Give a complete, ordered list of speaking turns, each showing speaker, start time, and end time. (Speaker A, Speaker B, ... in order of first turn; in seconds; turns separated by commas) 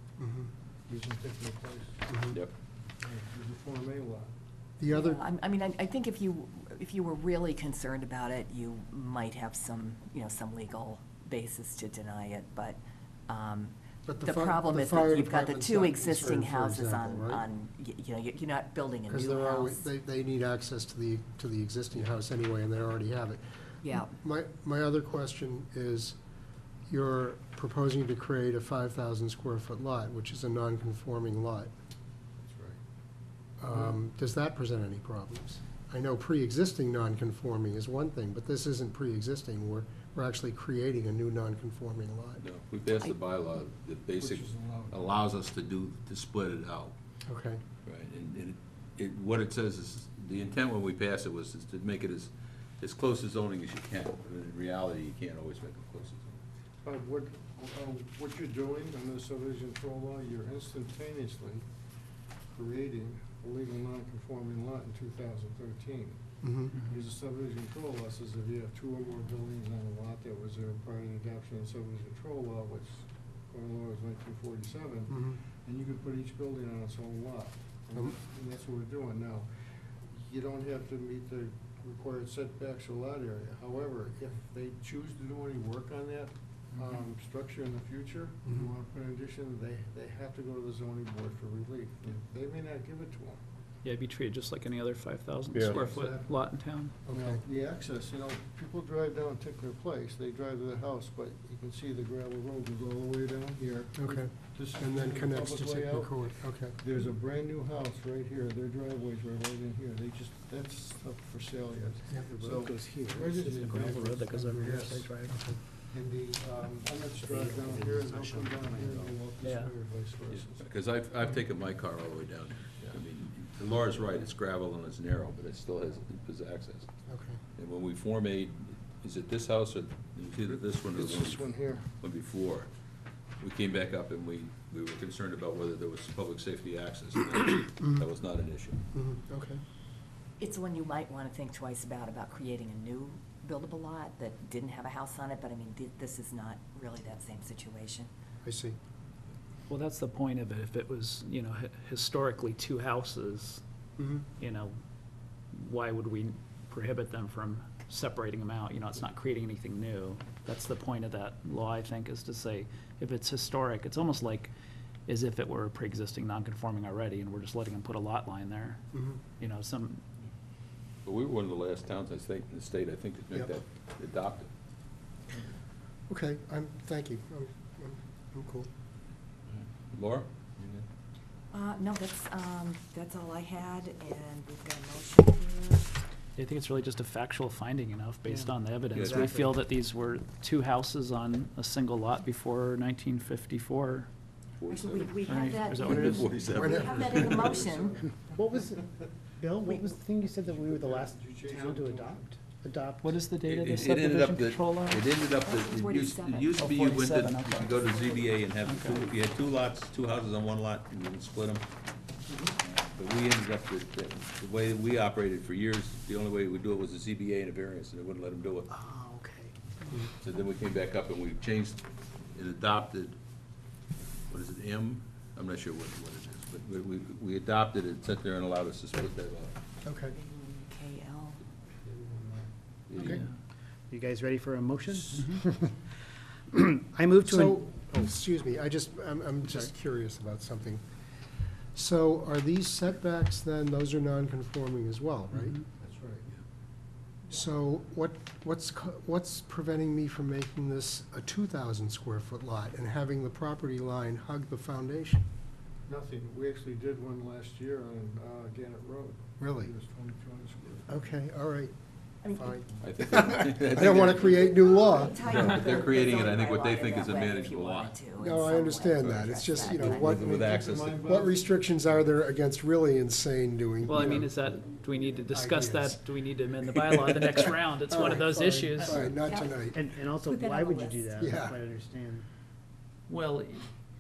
Speaker A: 0.2-0.5, Speaker B: 0.9-2.0, Speaker A: 2.1-2.4, Speaker B: 3.0-4.3, Speaker A: 4.8-5.2, Speaker C: 4.9-19.9, Speaker A: 14.1-17.4, Speaker A: 19.1-26.2, Speaker C: 23.8-24.1, Speaker A: 26.9-31.7, Speaker B: 32.4-32.8, Speaker A: 33.6-42.4, Speaker D: 42.4-46.9, Speaker B: 44.2-45.0, Speaker A: 47.3-47.6, Speaker D: 47.8-56.3, Speaker B: 56.8-61.6, Speaker B: 62.5-66.2, Speaker A: 66.4-66.8, Speaker B: 66.7-79.5, Speaker A: 75.1-75.4, Speaker B: 80.1-93.4, Speaker E: 93.8-96.9, Speaker D: 95.5-95.8, Speaker B: 95.6-96.4, Speaker A: 97.0-97.4, Speaker B: 97.1-115.1, Speaker A: 103.9-106.8, Speaker F: 112.2-113.8, Speaker E: 113.4-115.4, Speaker A: 115.3-115.6, Speaker B: 115.9-120.6, Speaker F: 117.2-119.1, Speaker E: 119.4-119.7, Speaker D: 120.3-126.9, Speaker A: 127.1-127.4, Speaker D: 127.5-132.7, Speaker B: 130.4-131.8, Speaker D: 133.4-138.8, Speaker A: 138.9-139.6, Speaker C: 140.4-148.1, Speaker A: 148.4-148.8, Speaker E: 149.7-153.6, Speaker A: 154.0-154.2, Speaker E: 154.4-154.7, Speaker E: 155.5-164.5, Speaker E: 165.1-168.8, Speaker A: 168.9-169.2, Speaker E: 169.4-170.0, Speaker D: 171.0-174.5, Speaker A: 176.1-178.7, Speaker D: 179.5-180.8, Speaker C: 181.5-185.9, Speaker E: 186.4-194.1, Speaker F: 188.3-189.5, Speaker D: 188.9-189.3, Speaker D: 194.6-195.1, Speaker C: 194.7-198.0, Speaker E: 195.2-196.2, Speaker D: 195.7-197.5, Speaker A: 196.6-196.8, Speaker B: 196.7-198.8, Speaker F: 198.3-203.3, Speaker B: 200.4-202.3, Speaker E: 203.0-205.1, Speaker D: 203.4-211.6, Speaker C: 205.4-206.6, Speaker E: 206.5-208.0, Speaker C: 207.7-208.4, Speaker E: 208.6-209.0, Speaker D: 212.6-218.7, Speaker F: 218.7-220.1, Speaker D: 220.2-221.8, Speaker D: 222.3-223.1, Speaker D: 224.3-229.5, Speaker A: 229.8-230.2, Speaker C: 230.1-231.4, Speaker B: 231.8-232.5, Speaker D: 232.9-233.2, Speaker F: 233.9-238.1, Speaker A: 237.2-240.8, Speaker A: 241.7-245.6, Speaker B: 245.8-246.3, Speaker A: 247.3-255.2, Speaker B: 255.9-261.0, Speaker A: 259.4-259.7, Speaker A: 260.9-261.7, Speaker C: 262.2-262.6, Speaker A: 262.3-265.2, Speaker D: 262.8-264.5, Speaker C: 264.7-270.2, Speaker D: 265.2-268.0, Speaker A: 268.2-274.3, Speaker D: 269.0-271.0, Speaker B: 270.4-271.5, Speaker E: 273.8-279.0, Speaker A: 275.3-276.0, Speaker A: 277.3-279.8, Speaker C: 278.9-279.6, Speaker F: 279.7-282.2, Speaker C: 280.2-281.3, Speaker A: 281.2-281.6, Speaker E: 283.1-283.6